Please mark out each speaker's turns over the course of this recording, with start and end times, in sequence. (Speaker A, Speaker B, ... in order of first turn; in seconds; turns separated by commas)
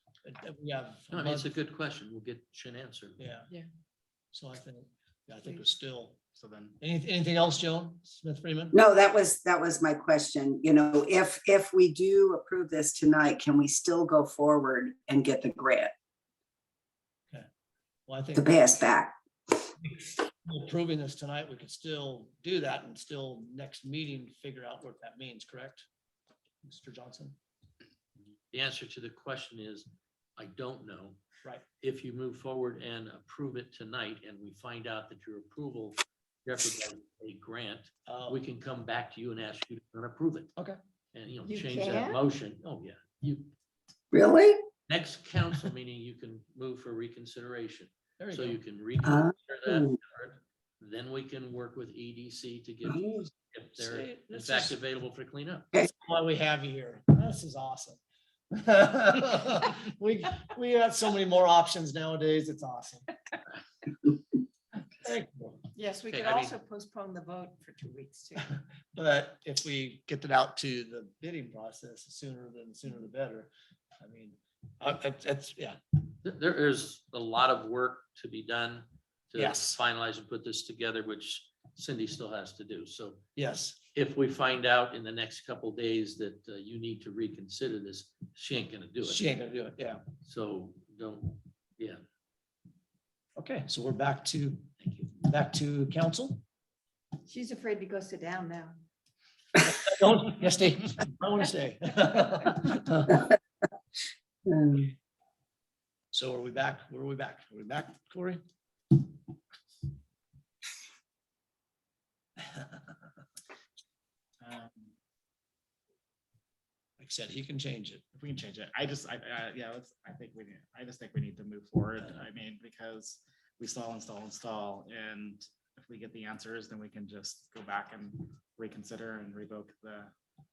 Speaker A: 0.2-1.4, Speaker B: 1.1-3.2, Speaker A: 3.2-3.5, Speaker A: 4.3-6.2, Speaker C: 6.3-6.8, Speaker A: 6.8-8.8, Speaker D: 8.7-15.9, Speaker A: 18.1-18.5, Speaker D: 18.4-19.1, Speaker A: 19.9-25.9, Speaker A: 26.6-27.4, Speaker B: 28.5-31.2, Speaker B: 31.8-40.5, Speaker B: 41.1-43.5, Speaker E: 41.5-42.1, Speaker D: 44.1-44.6, Speaker B: 44.9-55.7, Speaker A: 48.2-48.5, Speaker D: 49.0-49.3, Speaker A: 53.8-54.7, Speaker A: 55.8-58.0, Speaker A: 58.5-63.1, Speaker A: 65.0-65.7, Speaker E: 65.8-68.3, Speaker B: 66.1-66.6, Speaker A: 68.4-75.8, Speaker B: 76.2-83.2, Speaker A: 79.4-79.8, Speaker A: 83.4-83.8, Speaker B: 83.9-89.3, Speaker A: 89.1-90.0, Speaker B: 90.2-92.0, Speaker A: 93.4-94.6, Speaker B: 94.8-95.2, Speaker A: 95.2-96.4, Speaker E: 97.3-98.7, Speaker A: 99.7-103.2, Speaker D: 104.5-104.9, Speaker A: 106.1-108.4, Speaker A: 112.5-112.8, Speaker C: 114.4-114.9, Speaker A: 117.0-118.0, Speaker C: 118.2-130.1